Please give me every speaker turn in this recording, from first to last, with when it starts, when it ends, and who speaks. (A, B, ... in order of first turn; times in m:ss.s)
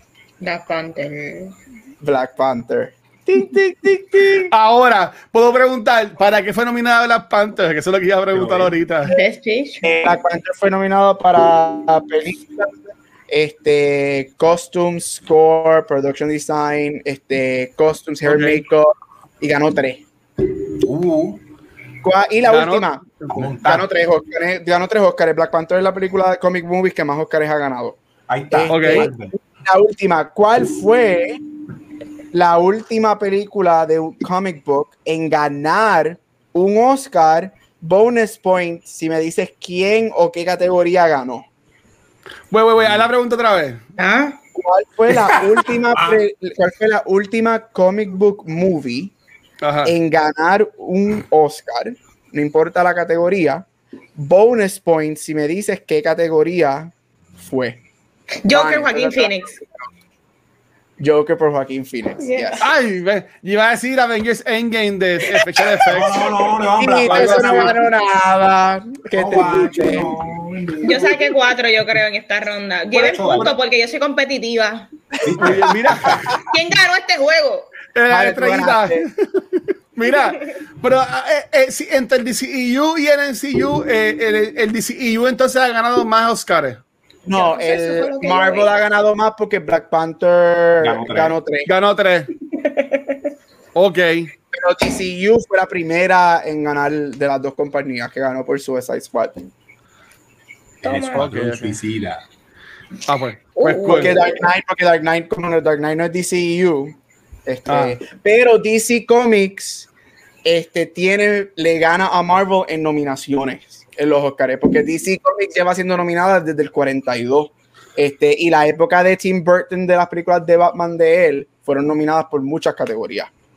0:00.4-0:01.5 A
0:02.0-0:04.5 B
0:04.5-0:09.1 C
0:08.3-0:08.8 D
0:09.0-0:10.0 A
0:09.8-0:12.7 B
0:13.3-0:20.0 B
0:18.2-0:18.6 C
0:20.8-0:21.4 D
0:22.0-0:28.0 B
0:22.5-0:23.6 C
0:23.3-0:23.9 D
0:28.3-0:29.3 D
0:28.5-0:31.4 B
0:28.7-0:29.1 C
0:32.3-0:41.5 B
0:42.5-0:43.8 C
0:42.8-0:43.1 D
0:44.0-0:44.4 A
0:44.5-0:49.1 B
0:45.1-0:46.2 D
0:49.6-0:49.9 C
0:49.8-0:53.6 B
0:54.2-0:57.8 B
0:58.4-0:59.6 A
0:58.5-0:59.8 B
1:01.0-1:02.6 B
1:02.2-1:02.7 A
1:02.6-1:06.3 C
1:05.9-1:07.8 D
1:06.8-1:10.3 B
1:07.0-1:07.8 C
1:09.1-1:11.1 D
1:10.8-1:11.1 B
1:10.8-1:14.9 A
1:12.9-1:13.5 D
1:13.2-1:13.6 C
1:15.2-1:16.4 D
1:15.4-1:16.4 B
1:15.4-1:16.4 C
1:16.5-1:17.7 A
1:17.9-1:19.1 C
1:18.1-1:19.1 B
1:20.0-1:26.8 C
1:27.3-1:31.7 B
1:27.3-1:28.7 A
1:30.8-1:31.4 D
1:31.7-1:32.3 C
1:32.6-1:33.2 A
1:33.8-1:34.3 C
1:34.5-1:39.4 B
1:40.8-1:41.3 A
1:40.8-1:42.2 D
1:41.2-1:41.8 C
1:43.1-1:44.2 C
1:43.6-1:44.4 A
1:43.8-1:49.9 B
1:47.7-1:48.0 C
1:50.4-2:03.3 B